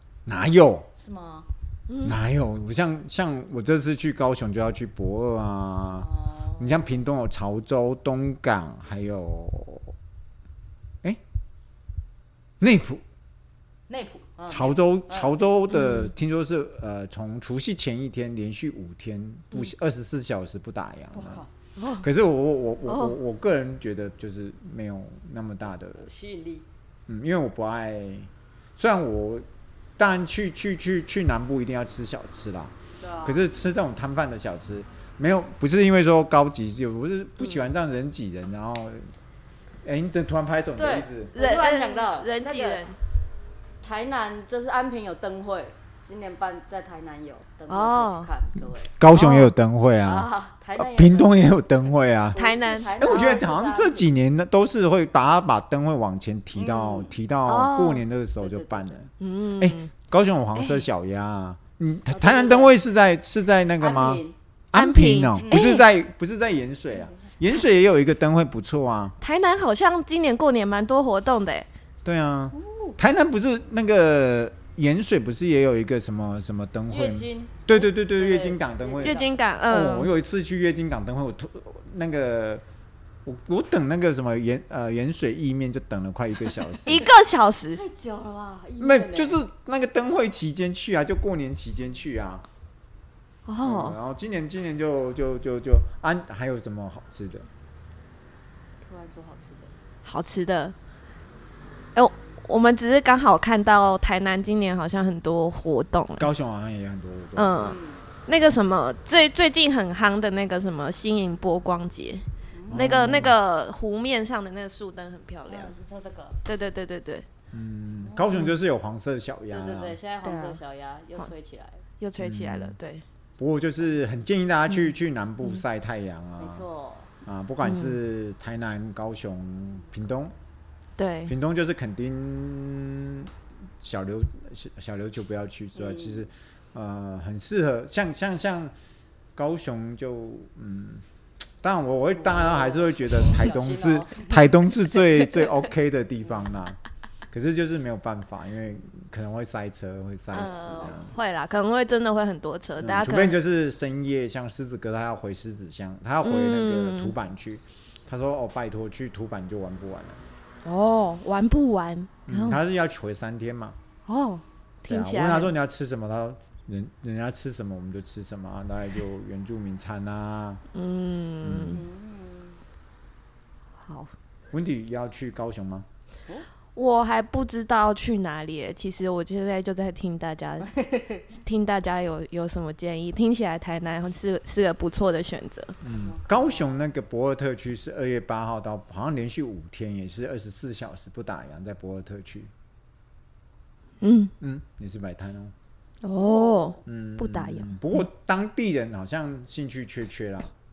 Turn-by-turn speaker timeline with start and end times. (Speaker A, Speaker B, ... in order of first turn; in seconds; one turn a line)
Speaker A: 0.3-0.9
Speaker B: 1.0-1.5
Speaker C: 1.9-2.2
Speaker A: 2.0-6.1
Speaker B: 6.0-7.0
Speaker A: 6.6-9.9
Speaker A: 12.6-13.0
Speaker B: 13.9-15.4
Speaker A: 14.5-21.4
Speaker C: 15.7-16.1
Speaker B: 21.1-21.5
Speaker C: 21.8-22.1
Speaker A: 22.0-26.1
Speaker C: 22.9-23.2
Speaker B: 25.9-26.7
Speaker A: 27.1-29.4
Speaker A: 30.0-39.1
Speaker B: 33.0-33.5
Speaker A: 39.8-41.3
Speaker B: 40.8-42.8
Speaker C: 41.3-43.0
Speaker B: 43.8-48.9
Speaker C: 47.7-48.3
Speaker A: 49.0-52.4
Speaker C: 49.1-49.5
Speaker B: 50.0-51.5
Speaker B: 52.3-54.1
Speaker C: 52.4-53.4
Speaker A: 53.0-69.2
Speaker B: 56.6-57.2
Speaker C: 57.5-58.0
Speaker B: 58.4-59.0
Speaker C: 59.2-59.9
Speaker C: 60.5-60.8
Speaker B: 62.1-62.8
Speaker B: 63.8-64.4
Speaker C: 64.7-65.8
Speaker C: 69.2-71.7
Speaker A: 72.0-82.6
Speaker B: 72.5-73.0
Speaker B: 76.9-79.4
Speaker C: 79.0-80.1
Speaker A: 83.2-87.1
Speaker C: 86.8-87.8
Speaker B: 87.7-89.4
Speaker A: 88.8-92.5
Speaker C: 93.5-94.0
Speaker A: 93.6-97.5
Speaker B: 98.8-99.7
Speaker C: 100.0-100.8
Speaker C: 102.0-106.3
Speaker A: 106.2-107.6
Speaker C: 107.4-107.8
Speaker B: 107.6-108.1
Speaker C: 108.3-115.7
Speaker B: 112.5-113.0
Speaker A: 112.7-113.4
Speaker B: 115.5-116.4
Speaker C: 116.5-117.3
Speaker A: 117.5-120.0
Speaker B: 118.0-118.4
Speaker B: 119.5-121.8
Speaker C: 120.2-120.6
Speaker C: 122.0-123.0
Speaker A: 122.2-122.8
Speaker A: 123.4-126.7
Speaker B: 126.4-127.1
Speaker A: 127.3-130.3
Speaker C: 127.6-128.0
Speaker C: 131.0-131.3
Speaker A: 131.3-138.7
Speaker B: 135.8-136.3
Speaker A: 139.4-141.0
Speaker A: 141.6-146.8
Speaker B: 142.1-145.4
Speaker A: 147.3-151.1
Speaker B: 150.3-151.1
Speaker C: 150.3-153.4
Speaker A: 152.8-160.2
Speaker C: 156.2-157.2
Speaker C: 160.7-162.6
Speaker A: 162.3-163.8
Speaker C: 164.1-165.5
Speaker A: 164.9-170.6
Speaker C: 170.7-171.8
Speaker A: 171.4-171.8
Speaker B: 171.7-172.6
Speaker C: 173.8-174.1
Speaker A: 174.5-175.9
Speaker C: 176.8-180.7
Speaker B: 180.8-181.2
Speaker C: 181.4-185.8
Speaker A: 185.8-192.5
Speaker B: 185.8-186.9
Speaker C: 194.0-194.3
Speaker A: 194.4-195.5
Speaker C: 196.0-197.8
Speaker B: 196.2-196.8
Speaker A: 196.8-200.5